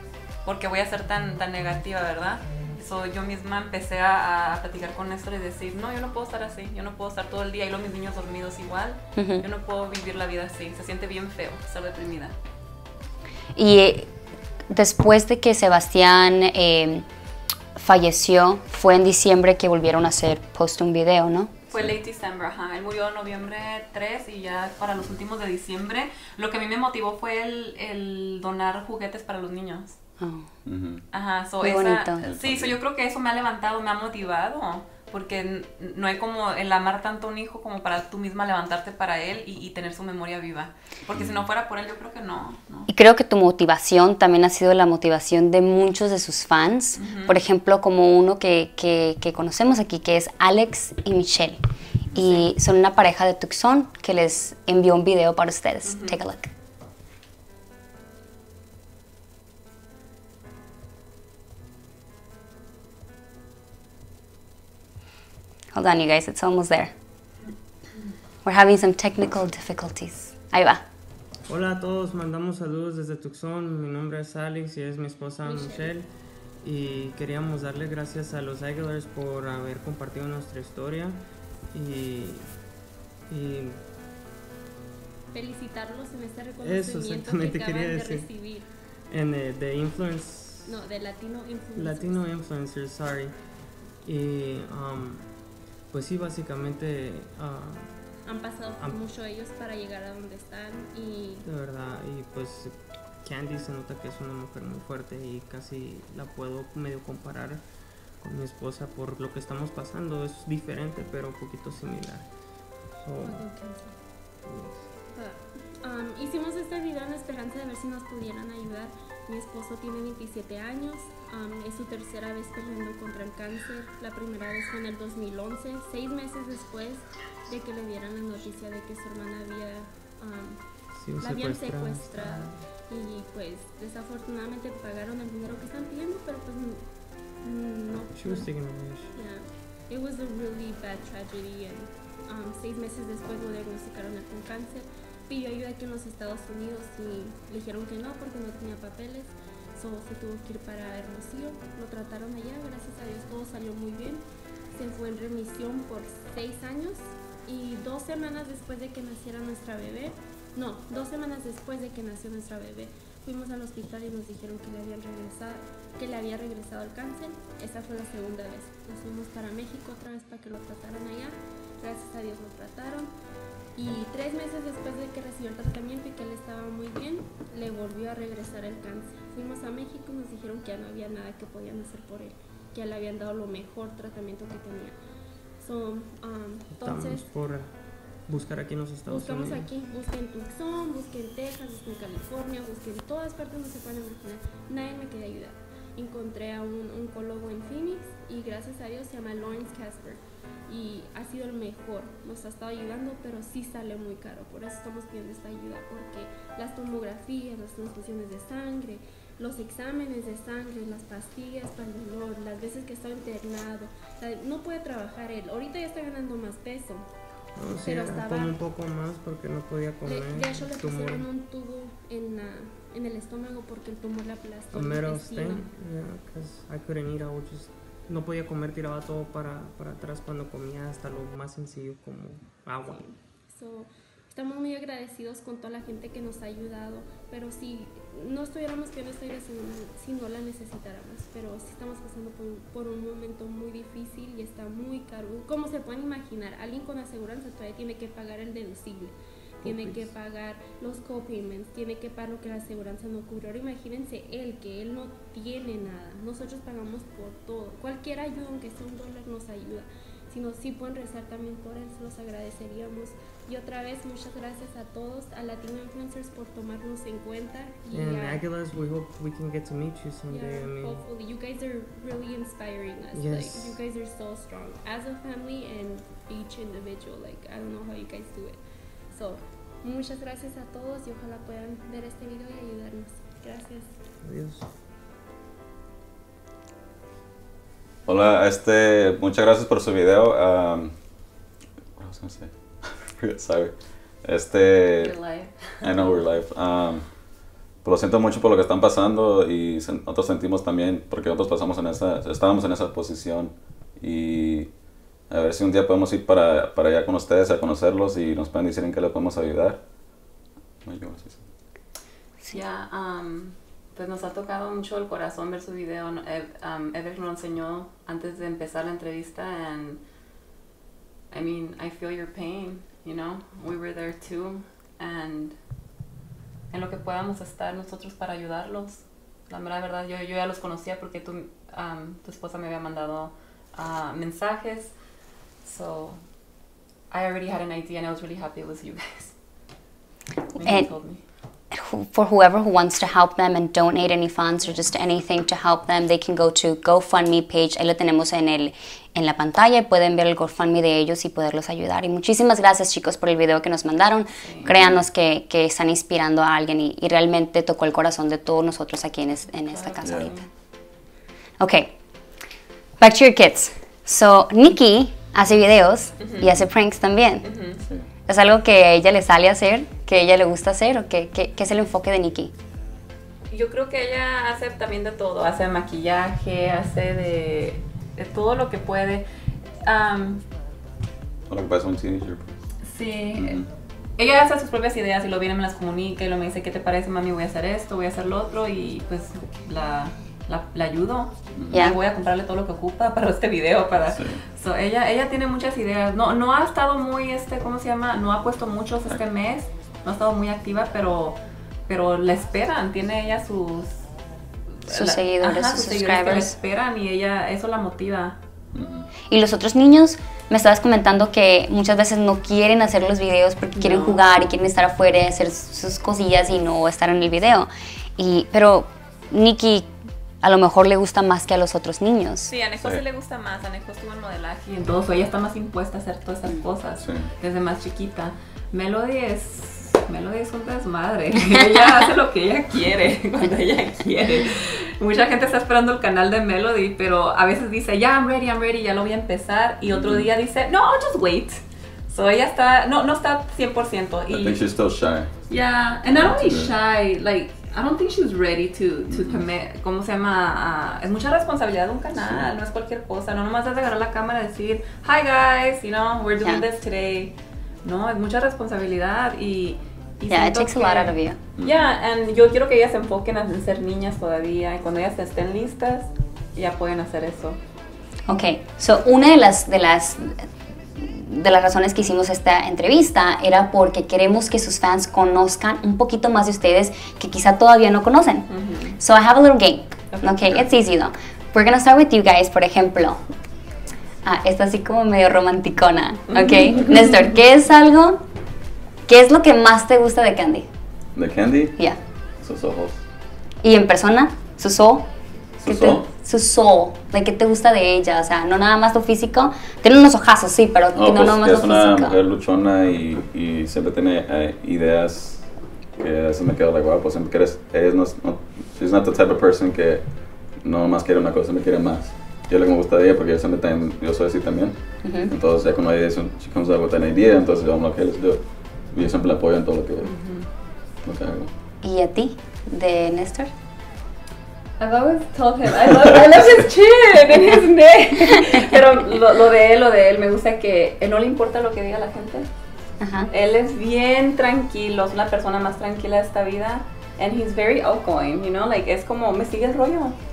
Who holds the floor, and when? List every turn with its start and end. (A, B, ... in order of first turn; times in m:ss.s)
0:00.4-0:12.4 A
0:09.2-0:09.4 B
0:13.6-0:14.1 B
0:14.7-0:17.1 B
0:17.8-0:21.5 B
0:21.7-0:30.0 A
0:30.2-0:30.5 B
0:30.7-0:31.0 C
0:31.1-0:42.9 A
0:31.6-0:32.2 B
0:32.2-0:32.8 C
0:41.1-0:41.4 C
0:42.9-0:51.6 B
0:47.0-0:47.4 A
0:52.1-0:56.5 B
0:52.1-0:52.5 A
0:55.8-0:56.2 A
1:05.7-1:06.9 B
1:08.4-1:10.8 B
1:11.5-1:16.1 D
1:15.4-1:15.9 E
1:16.6-1:22.5 D
1:23.3-1:23.8 D
1:25.3-1:28.7 E
1:26.6-1:28.3 D
1:29.1-1:30.7 D
1:30.7-1:32.3 E
1:31.8-1:33.4 D
1:34.0-1:35.3 D
1:35.9-1:38.0 D
1:38.3-1:41.5 E
1:41.4-1:47.6 D
1:48.2-1:52.3 D
1:53.0-1:53.5 D
1:53.2-1:54.0 E
1:54.4-1:54.9 D
1:55.1-2:10.6 E
2:10.9-2:12.6 D
2:11.2-2:16.8 E
2:17.4-2:53.1 E
2:17.9-2:19.1 D
2:53.8-3:05.0 E
3:05.6-3:07.3 E
3:06.8-3:09.7 D
3:09.0-3:37.1 E
3:37.6-3:41.3 D
3:37.7-3:38.6 E
3:40.0-3:45.7 E
3:44.7-3:53.1 D
3:52.9-4:28.4 E
4:09.6-4:10.1 D
4:27.9-4:31.0 D
4:30.3-4:38.6 E
4:33.1-4:33.8 D
4:39.1-4:43.9 E
4:44.2-4:44.7 D
4:48.1-4:50.9 C
4:52.0-4:55.2 C
4:55.0-4:56.2 A
4:55.8-4:57.0 C
4:57.8-5:04.7 C
5:05.3-5:09.8 C
5:10.8-5:11.4 C
5:12.5-5:20.0 A
5:21.3-5:25.6 A
5:26.7-5:35.0 A
5:35.6-5:36.2 A
5:37.1-5:39.4 A
5:40.6-5:41.2 A
5:40.6-5:40.9 B
5:41.7-6:00.4 B
5:54.4-5:54.8 A
5:59.7-6:00.4 A
6:00.0-6:00.3 C
6:01.6-6:01.9 B
6:03.0-6:07.5 B
6:06.2-6:06.5 A
6:07.4-6:07.8 A
6:08.3-6:12.5 B
6:13.5-6:19.3 A
6:19.8-6:20.4 A
6:21.5-6:22.6 C
6:22.8-6:23.6 A
6:23.4-6:23.7 C
6:24.2-6:44.0 A
6:31.6-6:31.9 C
6:31.7-6:32.0 B
6:34.1-6:34.4 C
6:44.8-6:48.4 A
6:44.9-6:46.6 B
6:48.7-6:49.1 C
6:49.3-6:59.9 B
6:53.8-6:54.2 A
7:00.4-7:02.5 B
7:02.5-7:24.6 A
7:07.0-7:07.3 C
7:19.8-7:20.3 C
7:24.3-7:25.3 C
7:25.5-7:47.6 A
7:26.1-7:26.7 C
7:29.1-7:29.4 C
7:32.2-7:32.5 C
7:40.3-7:41.4 B
7:41.6-7:41.9 C
7:48.3-7:50.5 B
7:51.0-7:58.5 B
7:58.5-7:59.0 A
7:59.0-8:03.2 B
8:00.1-8:00.6 A
8:04.2-8:08.2 B
8:06.3-8:07.2 A
8:09.1-8:10.7 B
8:11.2-8:11.8 C
8:12.4-8:13.0 C
8:13.6-8:15.1 B
8:15.6-8:16.0 C
8:15.7-8:22.2 B
8:21.0-8:25.4 C
8:26.0-8:30.0 C
8:30.6-8:38.4 C
8:35.0-8:35.3 B
8:38.9-8:40.1 C
8:40.0-8:40.5 A
8:41.0-8:41.5 C
8:41.8-8:43.5 B
8:44.8-8:52.5 A
8:53.0-8:53.3 B
8:53.3-9:00.2 A